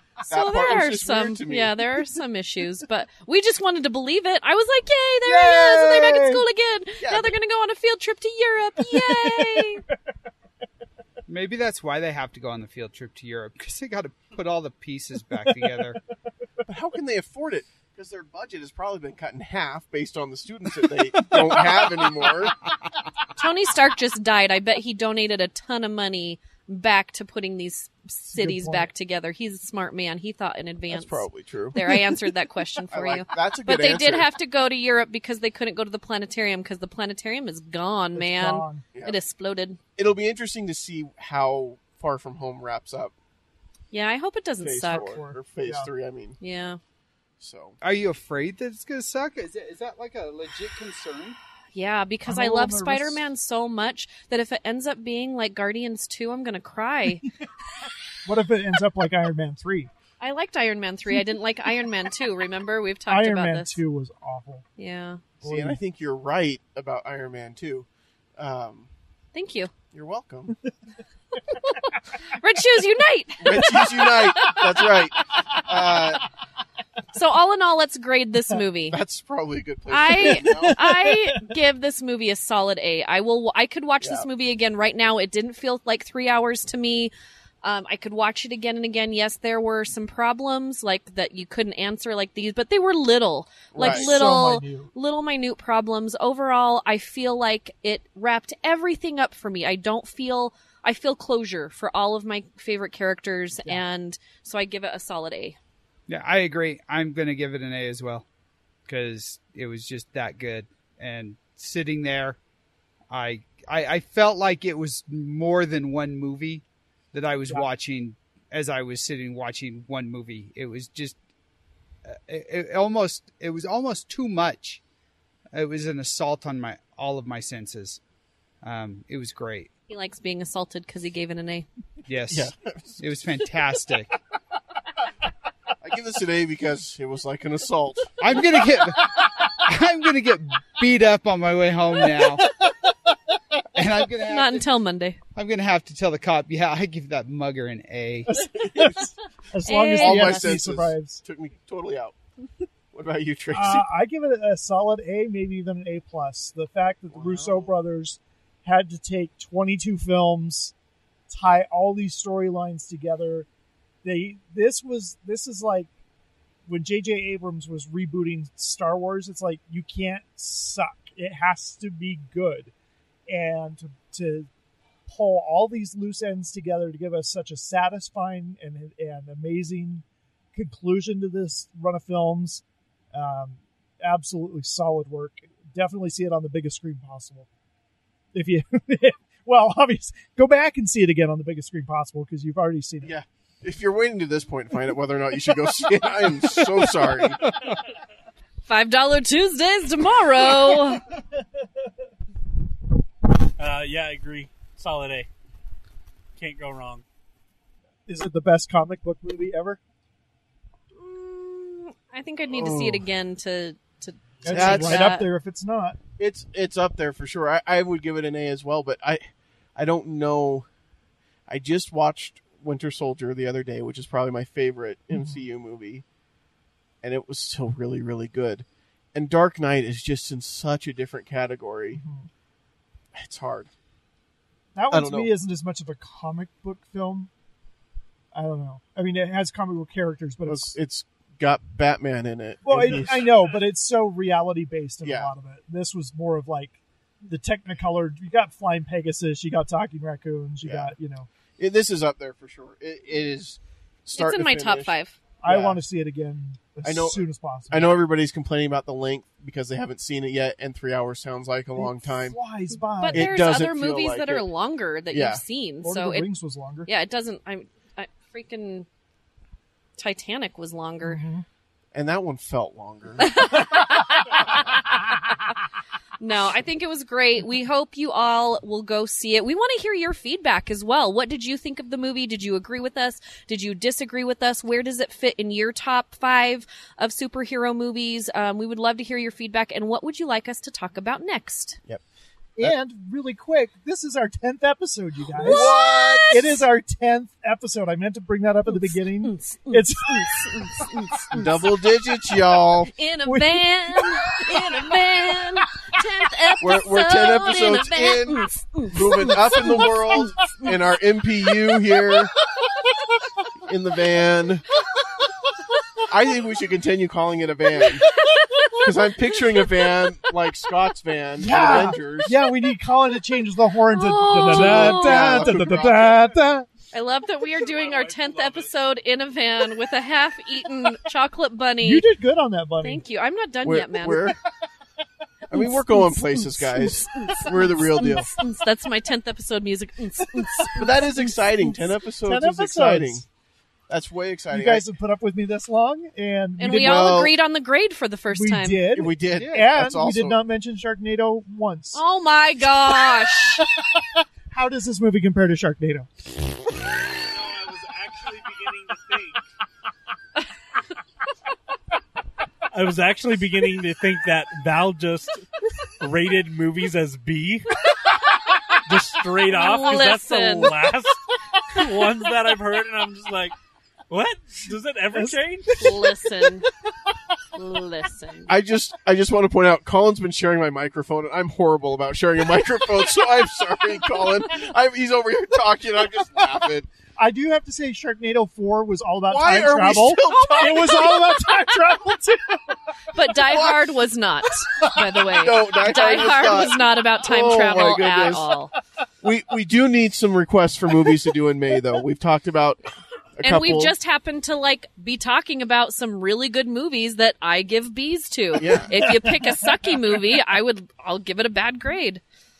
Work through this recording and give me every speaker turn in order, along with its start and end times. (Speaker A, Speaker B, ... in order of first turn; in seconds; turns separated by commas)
Speaker A: 0.3-1.7, Speaker B: 0.3-9.8, Speaker C: 5.2-6.4, Speaker A: 7.0-7.3, Speaker C: 8.9-9.7, Speaker D: 11.3-16.0, Speaker C: 15.5-15.8, Speaker A: 16.7-22.6, Speaker C: 21.2-22.3, Speaker B: 23.4-39.8, Speaker C: 28.3-28.9, Speaker A: 30.9-31.8, Speaker A: 32.9-34.3, Speaker C: 38.2-38.8, Speaker A: 40.0-43.1, Speaker B: 43.9-45.2, Speaker A: 44.6-46.4, Speaker C: 45.1-45.9, Speaker B: 46.4-46.8, Speaker A: 47.4-47.8, Speaker D: 47.8-51.4, Speaker B: 51.7-57.3, Speaker C: 52.3-53.2, Speaker C: 58.2-59.9, Speaker B: 60.2-63.8, Speaker C: 63.1-64.7, Speaker B: 64.8-65.2, Speaker C: 65.4-65.8, Speaker A: 65.4-68.9, Speaker B: 69.3-69.7, Speaker A: 69.9-70.5, Speaker B: 71.5-75.0, Speaker A: 73.4-76.2, Speaker B: 77.1-79.0, Speaker A: 78.9-80.8, Speaker B: 79.9-87.1, Speaker C: 80.1-81.5, Speaker A: 84.0-84.3, Speaker B: 87.6-105.6, Speaker A: 93.7-94.1, Speaker C: 93.8-94.9, Speaker D: 106.1-108.3, Speaker D: 108.9-112.4, Speaker D: 113.1-121.2, Speaker D: 122.1-124.8, Speaker D: 125.5-128.0, Speaker D: 128.6-129.7, Speaker B: 129.9-131.7, Speaker D: 132.1-134.2, Speaker A: 132.3-133.2, Speaker A: 135.8-138.2, Speaker D: 138.2-142.5, Speaker D: 143.7-144.7, Speaker B: 144.2-145.2, Speaker D: 145.3-148.4, Speaker C: 148.3-151.2, Speaker B: 149.7-150.6, Speaker A: 149.9-152.2, Speaker A: 152.9-153.9, Speaker C: 153.5-160.7, Speaker A: 157.1-157.8, Speaker C: 161.3-163.5, Speaker C: 164.0-165.9, Speaker C: 166.7-172.7, Speaker C: 173.3-174.5, Speaker C: 175.1-187.5, Speaker C: 188.3-193.1, Speaker A: 193.0-197.4, Speaker B: 198.7-201.0, Speaker C: 200.6-201.4, Speaker E: 203.6-205.3, Speaker E: 206.4-207.0, Speaker C: 208.1-209.8, Speaker B: 210.9-215.3, Speaker A: 212.5-213.1, Speaker C: 214.4-216.0, Speaker A: 214.5-215.2, Speaker A: 216.2-219.2, Speaker A: 219.8-220.7, Speaker A: 221.5-226.0, Speaker C: 225.1-225.4, Speaker A: 227.0-232.0, Speaker C: 231.9-232.3, Speaker A: 233.2-233.7, Speaker C: 234.8-237.3, Speaker A: 234.9-235.3, Speaker C: 238.3-240.8, Speaker A: 240.5-243.3, Speaker C: 242.7-251.3, Speaker A: 245.0-245.3, Speaker A: 250.6-250.9, Speaker A: 251.6-255.8, Speaker B: 254.2-255.2, Speaker C: 255.4-258.0, Speaker A: 256.8-262.4, Speaker C: 261.8-263.4, Speaker B: 263.0-266.3, Speaker A: 263.1-264.5, Speaker A: 265.1-265.4, Speaker C: 265.8-266.9, Speaker B: 266.9-268.9, Speaker B: 270.0-271.2, Speaker C: 271.0-271.4, Speaker A: 271.9-273.6, Speaker B: 273.2-275.1, Speaker B: 276.2-291.8, Speaker C: 292.6-295.7, Speaker A: 295.4-296.5, Speaker B: 295.4-296.5, Speaker C: 296.3-301.5, Speaker B: 298.7-301.4, Speaker A: 301.3-302.9, Speaker B: 302.8-310.8, Speaker C: 303.2-305.0, Speaker A: 306.6-312.3, Speaker A: 313.6-314.7, Speaker A: 316.1-318.1, Speaker B: 317.7-318.8, Speaker A: 318.8-322.4, Speaker C: 321.4-326.7, Speaker B: 323.9-325.8, Speaker A: 324.4-326.3, Speaker B: 326.9-332.1, Speaker E: 327.4-328.7, Speaker C: 331.8-333.0, Speaker B: 332.8-334.4, Speaker A: 333.6-334.4, Speaker A: 335.5-338.3, Speaker B: 335.5-341.7, Speaker A: 340.8-343.2, Speaker C: 342.3-343.2, Speaker A: 343.9-344.9, Speaker C: 344.5-347.2, Speaker B: 346.6-348.8, Speaker A: 346.6-347.3, Speaker C: 348.3-352.0, Speaker A: 348.9-350.4, Speaker D: 349.4-349.7, Speaker B: 351.9-353.7, Speaker C: 353.1-356.1, Speaker E: 357.1-359.4, Speaker E: 362.7-365.5, Speaker E: 366.0-367.8, Speaker E: 368.8-373.6, Speaker B: 369.5-370.8, Speaker E: 374.1-376.0, Speaker C: 375.1-376.5, Speaker B: 375.7-376.7, Speaker B: 377.6-378.5, Speaker A: 378.5-386.9, Speaker C: 387.2-392.8, Speaker A: 389.2-391.4, Speaker B: 393.1-398.7, Speaker A: 393.4-393.8, Speaker C: 394.7-395.0, Speaker A: 395.1-398.5, Speaker A: 399.2-403.9, Speaker B: 403.4-412.2, Speaker A: 408.6-408.9, Speaker C: 408.9-409.7